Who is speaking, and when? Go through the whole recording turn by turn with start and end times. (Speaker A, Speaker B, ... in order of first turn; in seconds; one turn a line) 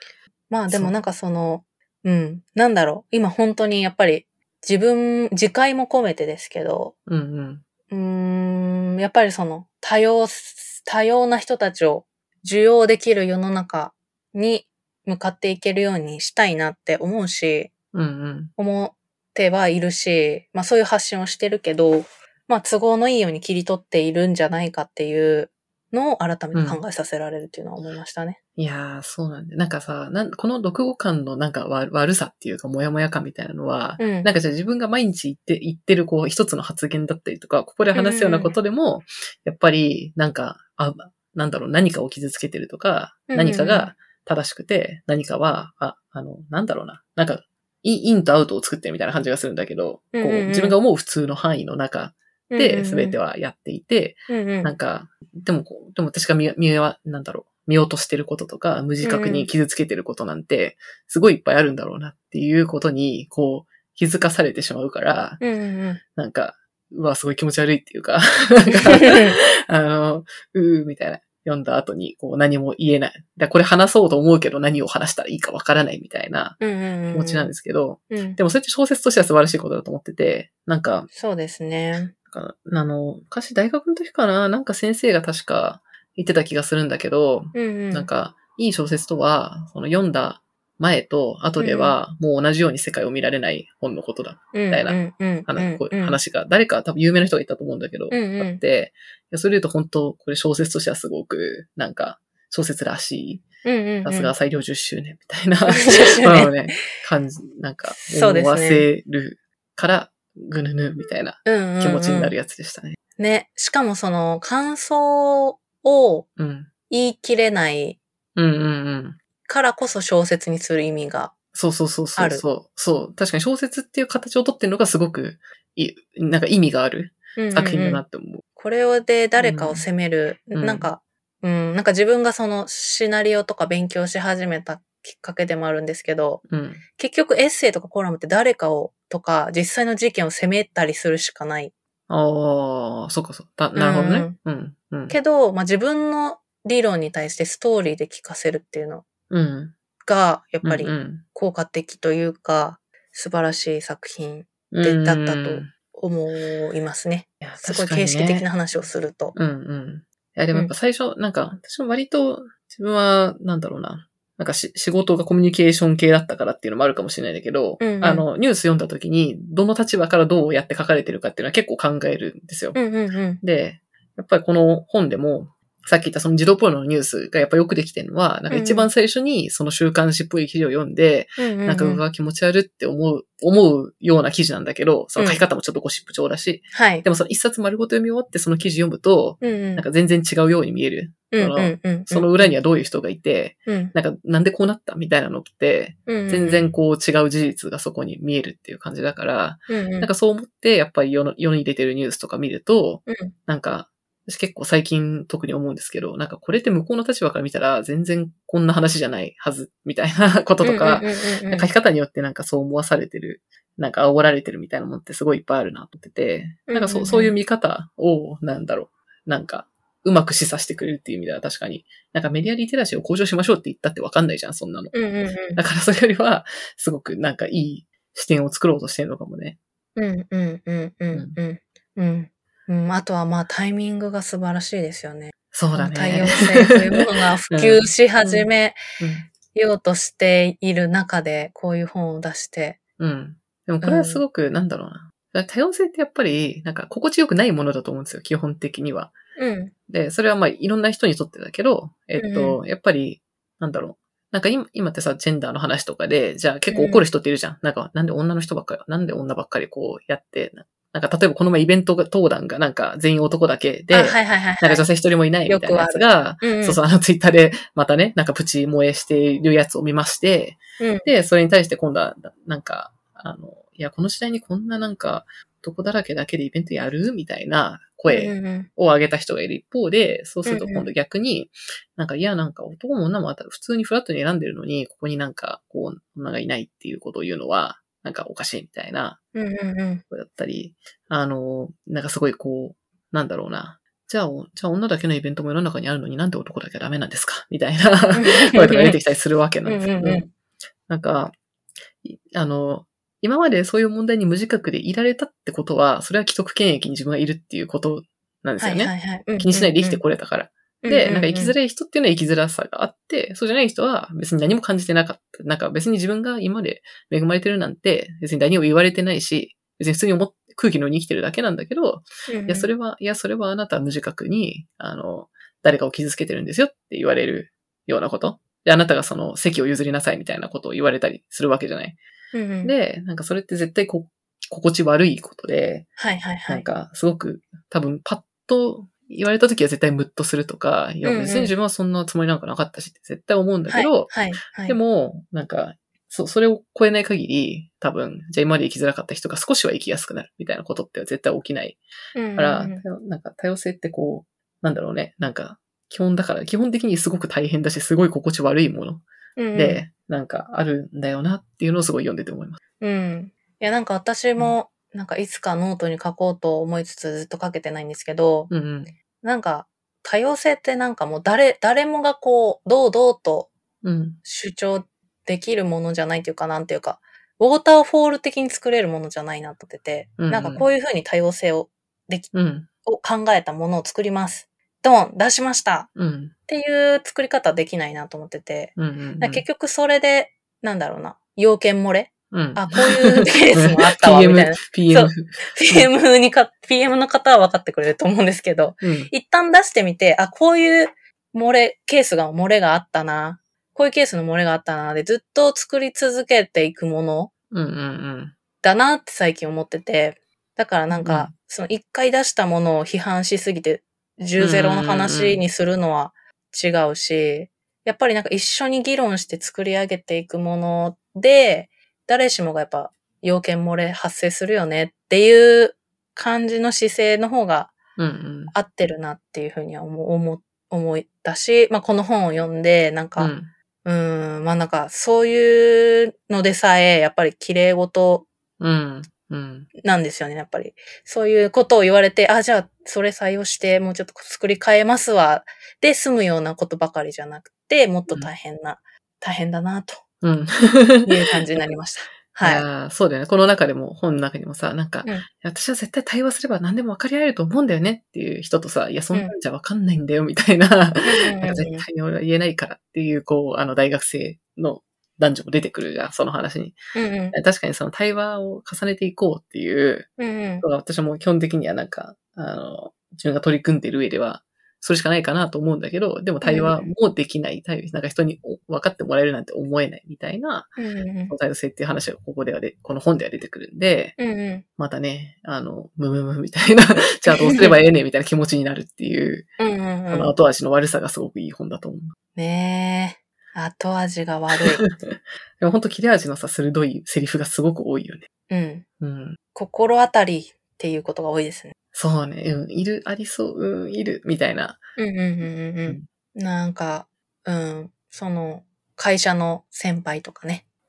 Speaker A: 0.5-6.9
Speaker B: 7.1-7.6
Speaker A: 7.9-17.7
Speaker B: 17.9-18.5
Speaker A: 18.6-28.4
Speaker B: 26.5-26.8
Speaker B: 28.6-65.4
Speaker A: 34.0-34.3
Speaker A: 37.9-38.5
Speaker A: 43.3-43.9
Speaker A: 50.1-50.8
Speaker A: 52.5-53.2
Speaker A: 54.3-54.7
Speaker A: 59.0-59.5
Speaker A: 65.4-66.0
Speaker B: 66.2-81.1
Speaker A: 68.7-69.4
Speaker A: 76.6-77.5
Speaker A: 78.1-78.4
Speaker A: 81.1-82.1
Speaker B: 82.3-103.4
Speaker A: 87.5-88.1
Speaker A: 91.6-92.0
Speaker A: 94.5-96.2
Speaker A: 98.1-98.6
Speaker A: 103.6-104.3
Speaker B: 104.0-113.0
Speaker A: 105.7-106.8
Speaker A: 107.9-108.9
Speaker A: 111.4-112.3
Speaker A: 113.2-116.3
Speaker B: 116.4-116.7
Speaker A: 116.9-118.0
Speaker B: 118.3-119.2
Speaker A: 119.5-121.3
Speaker B: 121.5-128.4
Speaker A: 122.2-122.4
Speaker A: 127.4-128.0
Speaker A: 128.6-136.4
Speaker B: 129.4-129.8
Speaker B: 130.5-130.9
Speaker B: 136.5-136.8
Speaker A: 137.0-141.7
Speaker B: 142.1-145.2
Speaker A: 143.7-144.3
Speaker A: 145.1-149.0
Speaker B: 149.3-149.7
Speaker A: 150.0-159.3
Speaker B: 150.6-151.2
Speaker B: 154.7-155.7
Speaker B: 157.4-158.5
Speaker B: 159.3-172.8
Speaker A: 167.8-168.2
Speaker A: 172.7-173.4
Speaker B: 173.4-224.9
Speaker A: 178.5-178.9
Speaker A: 181.4-182.0
Speaker A: 185.2-185.4
Speaker A: 186.7-187.0
Speaker A: 189.4-189.8
Speaker A: 191.3-192.5
Speaker A: 193.7-193.9
Speaker A: 196.1-196.7
Speaker A: 199.7-200.1
Speaker A: 203.1-203.3
Speaker A: 210.6-211.7
Speaker A: 216.7-217.3
Speaker A: 224.9-225.6
Speaker B: 225.5-229.6
Speaker A: 229.9-238.8
Speaker B: 231.1-231.4
Speaker B: 235.5-238.5
Speaker B: 239.0-239.3
Speaker A: 239.5-242.8
Speaker B: 243.0-249.1
Speaker A: 243.8-244.2
Speaker A: 249.4-249.7
Speaker B: 249.9-289.2
Speaker A: 252.2-252.6
Speaker A: 256.7-257.0
Speaker A: 263.9-264.9
Speaker A: 265.5-266.8
Speaker A: 270.8-271.1
Speaker A: 278.1-278.7
Speaker A: 280.4-280.9
Speaker A: 289.3-290.0
Speaker B: 290.1-300.3
Speaker A: 298.1-299.0
Speaker A: 299.6-300.3
Speaker B: 300.9-301.3
Speaker B: 302.0-332.0
Speaker A: 308.6-310.0
Speaker A: 310.8-311.5
Speaker A: 322.3-322.7
Speaker A: 332.3-332.7
Speaker B: 332.6-335.9
Speaker A: 336.0-336.6
Speaker B: 336.5-351.8
Speaker A: 341.0-341.5
Speaker A: 343.7-344.8
Speaker A: 352.1-352.8
Speaker B: 352.4-362.6
Speaker A: 359.4-359.8
Speaker A: 362.8-368.5
Speaker B: 368.5-368.9
Speaker A: 369.2-373.5
Speaker B: 373.8-374.2
Speaker A: 374.2-382.3
Speaker B: 380.2-380.6
Speaker B: 382.3-382.7
Speaker A: 382.8-385.9
Speaker B: 385.9-386.3
Speaker A: 386.5-407.3
Speaker B: 388.8-389.4
Speaker B: 392.3-395.9
Speaker B: 398.8-399.1
Speaker B: 407.5-408.3
Speaker A: 408.6-427.7
Speaker B: 410.9-411.3
Speaker B: 414.4-415.4
Speaker B: 428.0-428.5
Speaker A: 428.5-433.3
Speaker B: 433.2-433.5
Speaker A: 433.8-438.3
Speaker B: 438.6-439.7
Speaker A: 439.8-450.0
Speaker B: 450.2-451.1
Speaker A: 451.0-452.6
Speaker B: 452.4-466.8
Speaker A: 461.0-461.8
Speaker A: 466.9-467.4
Speaker B: 467.3-470.1
Speaker A: 470.2-470.6
Speaker B: 470.6-480.8
Speaker A: 476.4-476.9
Speaker A: 480.8-481.3
Speaker B: 481.3-484.2
Speaker A: 484.2-484.6
Speaker B: 484.8-489.5
Speaker A: 487.3-487.8
Speaker A: 489.6-490.3
Speaker B: 490.1-492.1
Speaker A: 492.4-494.8
Speaker B: 494.6-498.2
Speaker A: 498.5-498.8
Speaker B: 499.0-499.4
Speaker A: 499.5-501.7
Speaker B: 501.9-504.8
Speaker A: 505.0-510.6